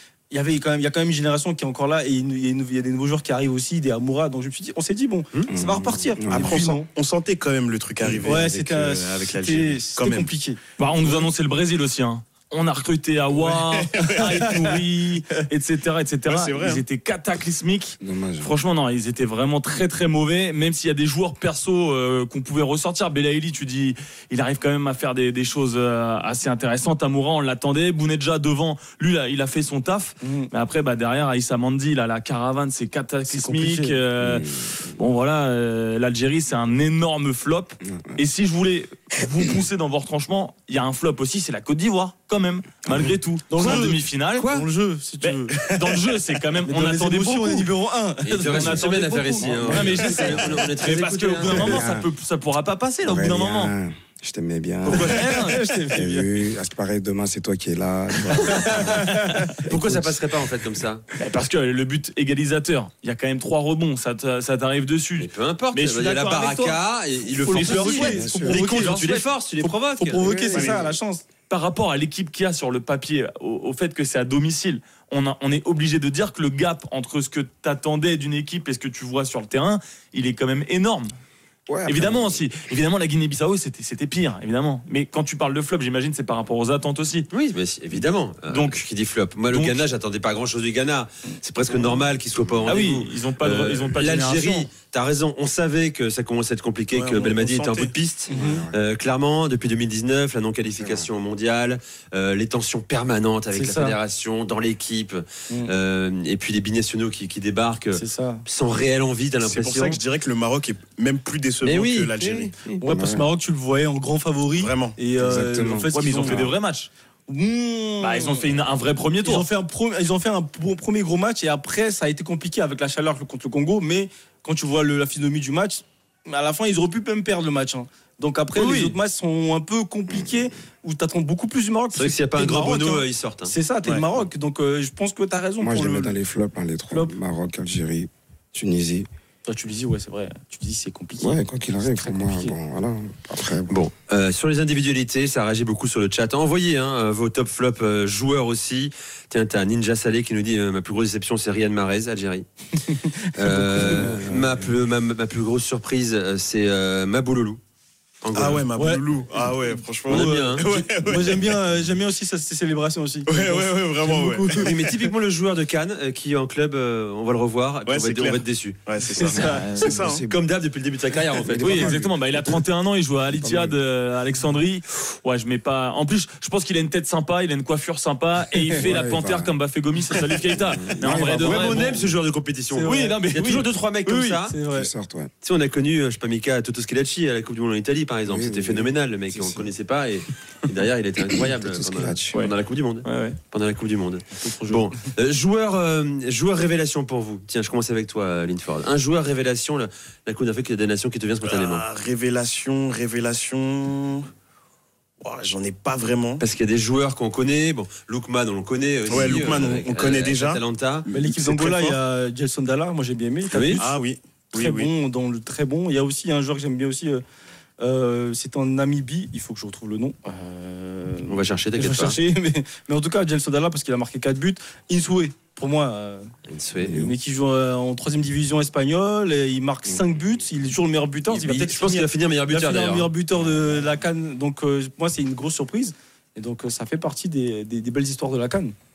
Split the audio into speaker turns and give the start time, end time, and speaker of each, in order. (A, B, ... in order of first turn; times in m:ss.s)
0:00.3-0:06.9 A
0:05.5-0:06.8 B
0:06.3-0:10.3 C
0:08.1-0:11.2 A
0:10.8-0:44.5 D
0:13.3-0:14.9 C
0:14.2-0:14.5 A
0:16.2-0:16.8 C
0:18.0-0:18.5 B
0:30.2-0:30.5 A
0:33.3-0:34.0 A
0:34.2-0:34.6 B
0:37.8-0:38.2 B
0:43.5-0:45.7 A
0:43.6-0:44.7 E
0:45.2-0:47.7 D
0:46.6-0:50.7 A
0:48.2-0:51.9 E
0:48.4-0:53.7 D
0:49.5-0:50.1 B
0:51.4-0:52.1 B
0:53.0-0:59.1 B
0:54.8-0:55.6 D
0:55.4-0:56.3 A
0:58.4-0:58.9 E
0:59.0-0:59.5 D
0:59.7-1:01.1 E
1:01.2-1:09.2 D
1:05.2-1:10.9 E
1:07.4-1:09.0 A
1:08.0-1:08.7 B
1:09.6-1:11.2 A
1:10.5-1:10.8 C
1:11.5-1:21.1 D
1:21.7-1:22.4 B
1:21.9-1:27.3 D
1:27.3-1:50.0 E
1:28.5-1:28.9 D
1:29.5-1:29.9 D
1:32.6-1:34.7 D
1:36.9-1:37.9 C
1:38.3-1:38.6 A
1:38.3-1:38.8 B
1:40.7-1:41.1 B
1:43.5-1:44.0 A
1:47.9-1:48.4 A
1:49.4-1:52.5 C
1:51.6-1:52.8 E
1:52.8-1:56.5 A
1:52.8-1:53.3 B
1:54.6-1:55.0 C
1:55.2-1:56.5 B
1:55.9-1:56.9 D
1:57.3-1:58.5 A
1:58.0-1:59.5 D
1:59.2-2:16.2 A
2:08.6-2:08.9 E
2:10.1-2:10.5 B
2:11.9-2:13.5 E
2:15.6-2:19.1 B
2:19.4-2:22.6 A
2:21.2-2:23.8 B
2:23.7-2:32.5 E
2:33.3-2:37.6 E
2:33.5-2:34.7 B
2:38.2-2:38.7 E
2:38.3-2:41.6 C
2:38.8-2:39.0 A
2:40.0-2:44.8 A
2:40.1-2:40.7 E
2:43.3-2:44.7 C
2:44.6-2:49.6 E
2:47.9-2:50.2 C
2:49.2-2:49.8 A
2:49.2-2:50.4 B
2:50.3-2:51.9 E
2:51.4-2:52.6 B
2:51.6-3:02.1 D
2:53.2-2:53.8 B
2:58.8-2:59.6 B
3:00.7-3:02.1 B
3:01.4-3:04.6 E
3:02.7-3:04.9 A
3:02.9-3:03.7 D
3:04.7-3:05.3 B
3:05.4-3:21.8 E
3:08.3-3:09.7 B
3:11.4-3:12.4 B
3:13.0-3:13.4 D
3:21.4-3:24.3 C
3:25.2-3:26.4 C
3:26.4-3:31.1 E
3:29.1-3:32.0 C
3:31.1-3:33.9 A
3:33.5-3:33.9 E
3:33.8-3:34.9 C
3:34.5-3:37.2 A
3:37.8-3:46.3 A
3:41.3-3:42.2 E
3:46.5-3:47.1 E
3:46.8-3:47.1 B
3:46.8-3:58.8 A
3:51.3-3:53.1 E